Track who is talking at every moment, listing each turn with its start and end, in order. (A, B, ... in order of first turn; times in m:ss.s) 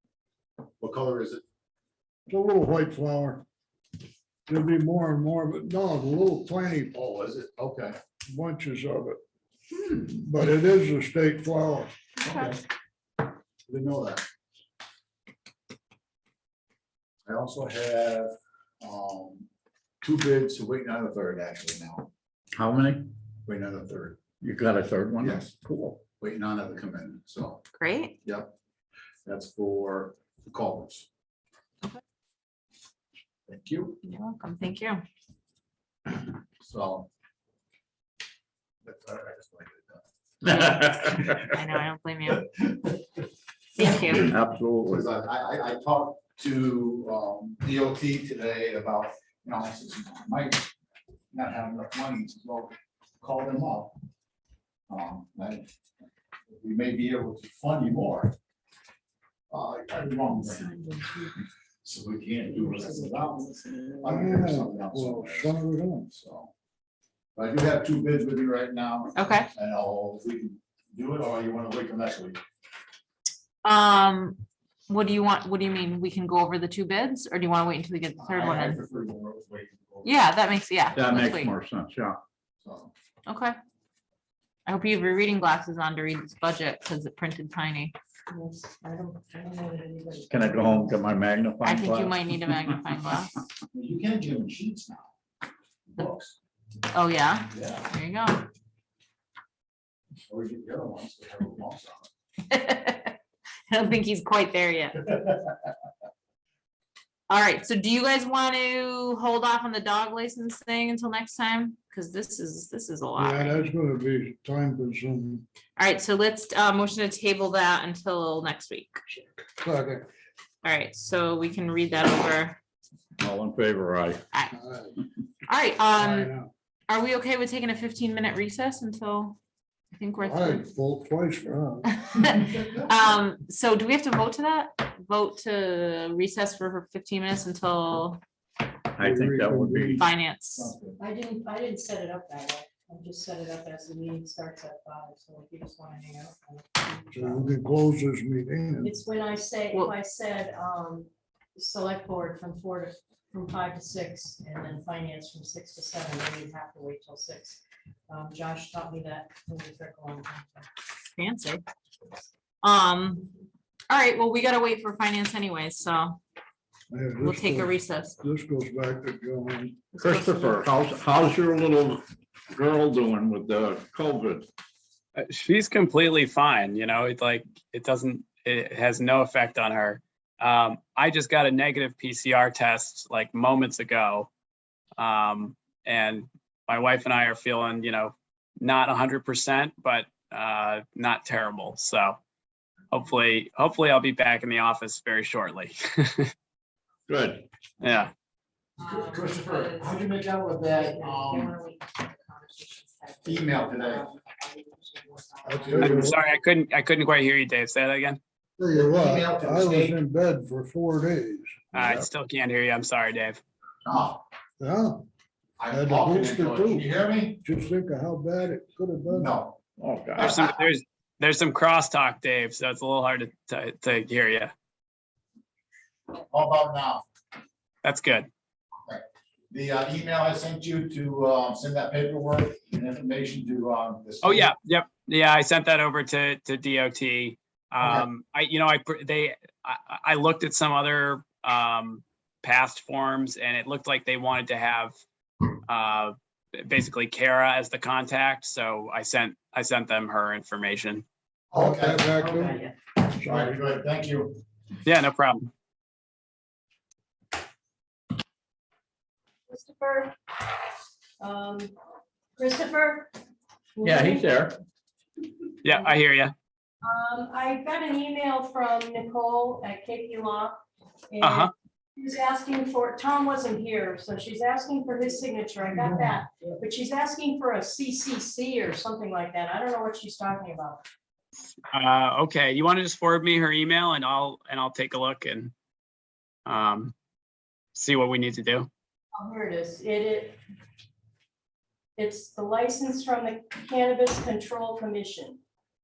0:00.8-0:01.4 A
0:02.3-0:03.4 B
0:04.5-0:07.0 B
0:06.9-0:08.0 A
0:08.3-0:09.2 B
0:10.1-0:11.9 B
0:12.2-0:12.5 C
0:12.2-0:12.6 A
0:13.6-0:14.2 A
0:17.2-0:19.5 A
0:20.0-0:22.1 A
0:22.6-0:23.1 D
0:23.4-0:24.2 A
0:24.4-0:25.6 D
0:25.2-0:27.6 A
0:27.7-0:28.2 C
0:28.2-0:28.5 A
0:29.2-0:31.1 A
0:33.5-0:34.0 A
0:34.0-0:35.0 C
0:36.6-0:37.1 A
0:38.8-0:40.0 A
0:40.5-0:42.5 C
0:40.5-0:41.3 D
0:40.9-0:41.5 A
0:42.3-0:42.9 A
0:43.8-0:44.3 C
0:43.9-0:44.3 A
0:44.1-0:45.1 D
0:44.8-0:50.7 A
0:51.3-0:54.0 A
0:54.9-0:55.7 A
0:56.5-0:58.4 A
0:59.5-1:00.8 A
1:00.4-1:01.3 C
1:01.8-1:06.5 A
1:04.0-1:06.1 B
1:07.3-1:12.4 A
1:09.1-1:09.5 C
1:13.6-1:18.8 C
1:18.2-1:20.3 A
1:20.0-1:21.5 C
1:20.9-1:22.2 D
1:22.6-1:22.9 A
1:23.2-1:23.6 C
1:24.6-1:28.0 C
1:28.3-1:31.0 E
1:30.3-1:32.2 D
1:31.6-1:33.4 C
1:33.7-1:35.1 A
1:35.9-1:36.4 A
1:36.9-1:38.5 C
1:37.5-1:37.9 A
1:40.3-1:42.1 A
1:42.5-1:45.2 C
1:47.3-1:53.6 C
1:53.2-1:55.4 B
1:55.8-1:59.0 C
1:59.4-2:00.1 B
2:00.6-2:02.6 C
2:03.2-2:04.2 D
2:04.5-2:05.0 B
2:05.5-2:06.3 C
2:06.0-2:06.5 B
2:06.9-2:09.4 C
2:09.9-2:10.7 C
2:10.2-2:11.9 B
2:11.9-2:18.2 C
2:18.9-2:20.0 D
2:19.0-2:20.0 B
2:20.0-2:20.7 C
2:20.5-2:21.0 A
2:21.0-2:27.5 E
2:27.1-2:28.9 B
2:28.8-2:40.7 E
2:41.1-2:41.6 C
2:42.6-2:43.3 C
2:43.9-2:46.2 C
2:46.9-2:49.8 B
2:47.2-2:48.2 C
2:49.9-2:50.7 C
2:50.0-2:54.5 D
2:55.2-3:04.3 F
3:05.0-3:12.2 F
3:12.9-3:16.3 F
3:17.1-3:17.4 D
3:17.8-3:18.1 F
3:18.8-3:26.1 C
3:18.8-3:21.6 A
3:23.2-3:24.0 A
3:25.4-3:26.2 B
3:25.8-3:28.2 F
3:28.6-3:31.6 B
3:28.7-3:30.0 A
3:31.7-3:33.4 F
3:33.8-3:34.2 A
3:34.6-3:35.0 B
3:35.6-3:37.4 A
3:35.7-3:36.9 B
3:37.4-3:39.3 B
3:39.1-3:39.6 A
3:39.8-3:40.4 D
3:40.2-3:40.4 A
3:40.2-3:44.5 F
3:46.2-3:47.0 A
3:47.8-3:48.3 F
3:48.9-3:54.5 A
3:54.2-4:05.0 F
3:57.8-3:58.0 A
4:05.7-4:11.0 F
4:11.5-4:14.4 A
4:11.5-4:12.6 B
4:12.2-4:12.8 E
4:13.2-4:13.6 B
4:14.8-4:15.5 F
4:19.5-4:20.2 E
4:21.2-4:21.7 E
4:22.4-4:23.1 E
4:23.7-4:24.4 E
4:23.8-4:24.6 D
4:25.6-4:26.3 F
4:25.6-4:26.0 E
4:26.8-4:30.6 E
4:31.1-4:40.8 E
4:31.2-4:31.5 F
4:35.8-4:36.0 A
4:41.7-4:45.5 F
4:46.4-4:46.9 F
4:47.7-4:48.7 F
4:49.1-4:50.4 E
4:52.0-4:55.4 E